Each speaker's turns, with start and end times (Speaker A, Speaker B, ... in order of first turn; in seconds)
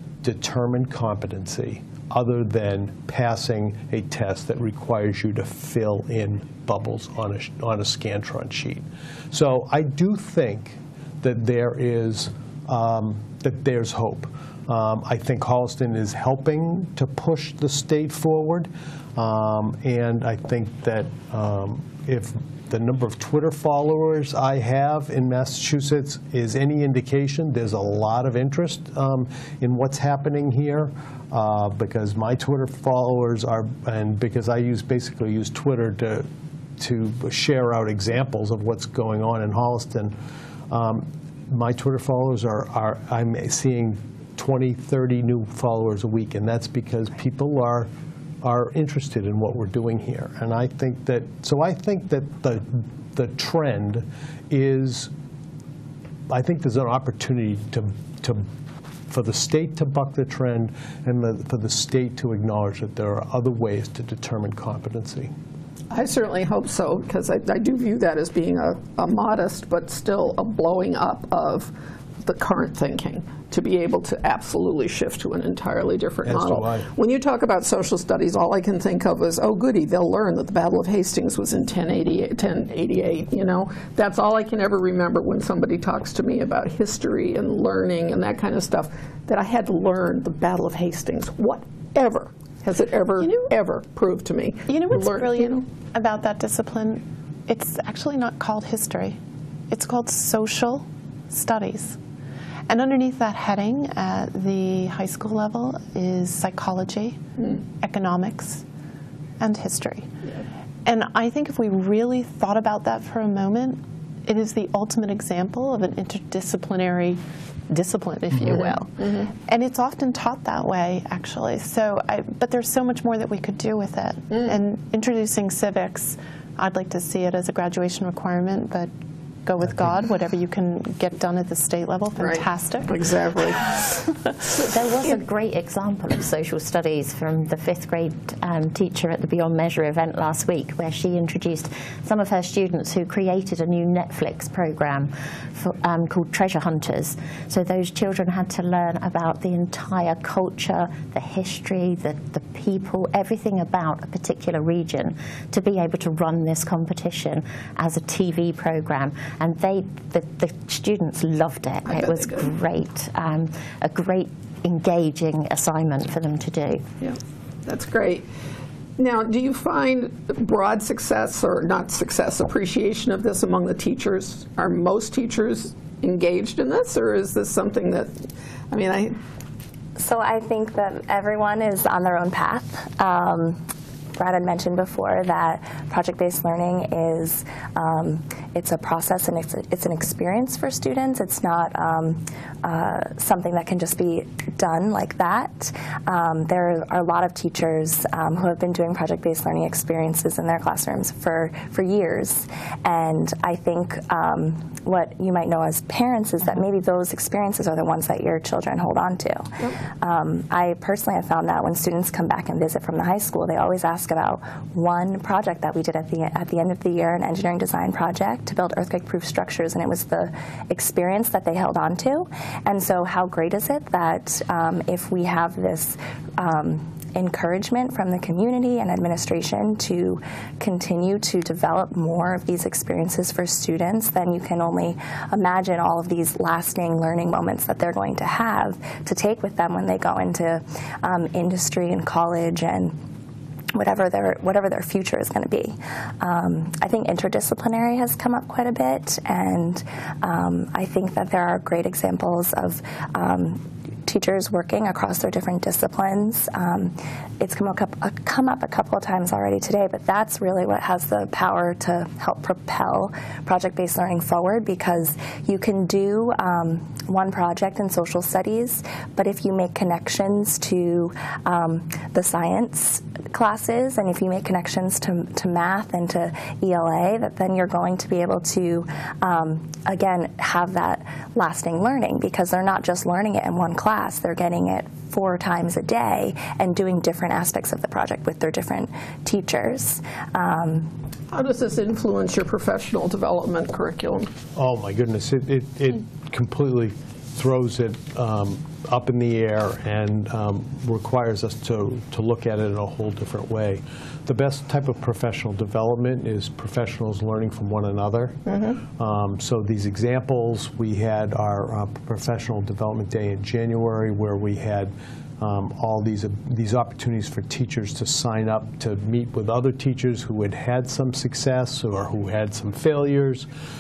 Speaker A: 0.2-36.3, 36.8-40.1, 40.7-47.9, 48.4-55.1, 56.3-58.4, 59.1-65.3, 76.2-76.9, 294.6-308.4, 309.0-323.5
Speaker B: 65.9-71.7, 72.2-95.6, 132.2-133.8, 162.0-162.5, 167.0-168.3, 169.0-179.2, 291.3-294.3, 308.5-308.8
Speaker C: 94.7-99.2, 99.7-102.0, 102.7-108.6, 109.4-110.1, 110.8-128.9, 129.4-133.0
Speaker D: 134.6-166.8
Speaker E: 180.0-183.6, 184.2-243.0, 243.8-290.9